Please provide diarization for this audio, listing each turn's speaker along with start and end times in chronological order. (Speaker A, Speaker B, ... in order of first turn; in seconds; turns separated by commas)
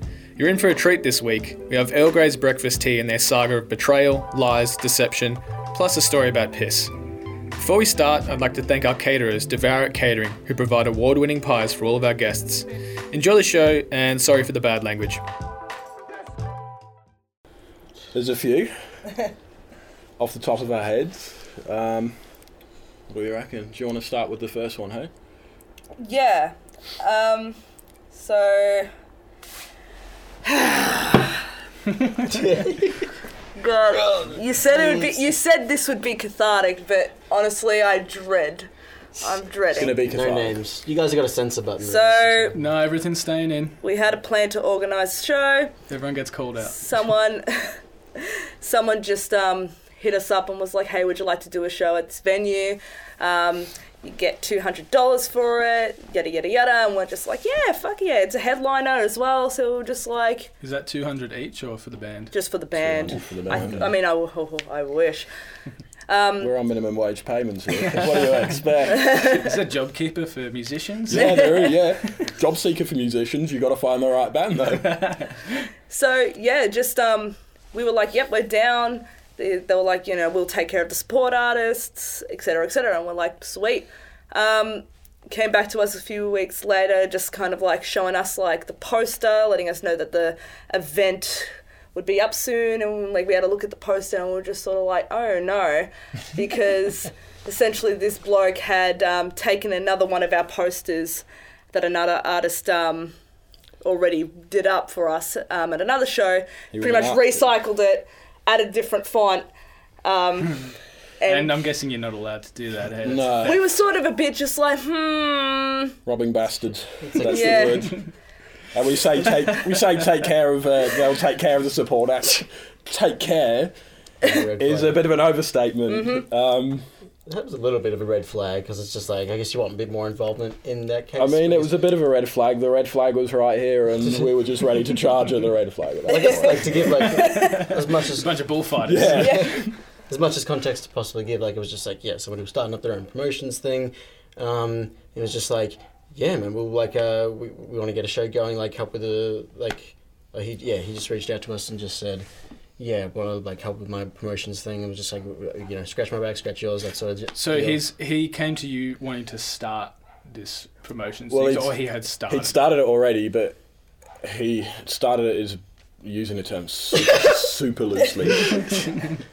Speaker A: 0.4-6.9, Speaker A: 7.5-15.2, Speaker B: 18.1-18.7, Speaker B: 20.2-22.2, Speaker B: 23.1-25.1, Speaker C: 26.0-27.6, Speaker C: 28.1-28.9, Speaker C: 30.4-31.2, Speaker D: 32.3-33.0, Speaker C: 33.6-40.0, Speaker D: 34.7-35.3, Speaker B: 39.7-40.6, Speaker D: 39.8-42.6, Speaker C: 41.8-42.6, Speaker A: 42.5-43.8, Speaker C: 43.8-45.7, Speaker A: 45.9-47.1, Speaker C: 46.6-60.5, Speaker A: 60.6-62.3, Speaker C: 62.3-65.3, Speaker B: 62.8-63.9, Speaker C: 66.1-66.5, Speaker B: 66.4-69.1, Speaker A: 67.8-68.2, Speaker C: 69.0-69.5, Speaker A: 69.0-71.7, Speaker B: 71.1-75.0, Speaker C: 71.2-71.7, Speaker A: 74.8-75.7, Speaker C: 75.9-103.2, Speaker C: 103.8-109.5, Speaker B: 106.7-107.5, Speaker C: 110.0-111.6, Speaker A: 111.3-113.5, Speaker B: 113.0-113.6, Speaker C: 113.4-116.0, Speaker B: 116.0-118.0, Speaker D: 117.0-117.9, Speaker C: 117.2-118.0, Speaker B: 118.7-123.7, Speaker D: 124.2-125.1, Speaker B: 124.6-126.9, Speaker C: 125.9-126.2, Speaker D: 127.3-131.8, Speaker B: 131.2-137.1, Speaker D: 134.0-134.3, Speaker D: 136.0-139.5, Speaker C: 136.1-136.4, Speaker C: 137.0-137.7, Speaker A: 137.3-139.6, Speaker B: 138.8-139.7, Speaker C: 139.2-139.6, Speaker D: 140.1-152.2, Speaker D: 152.8-157.8, Speaker A: 157.3-162.6, Speaker B: 161.3-163.6, Speaker B: 164.2-169.0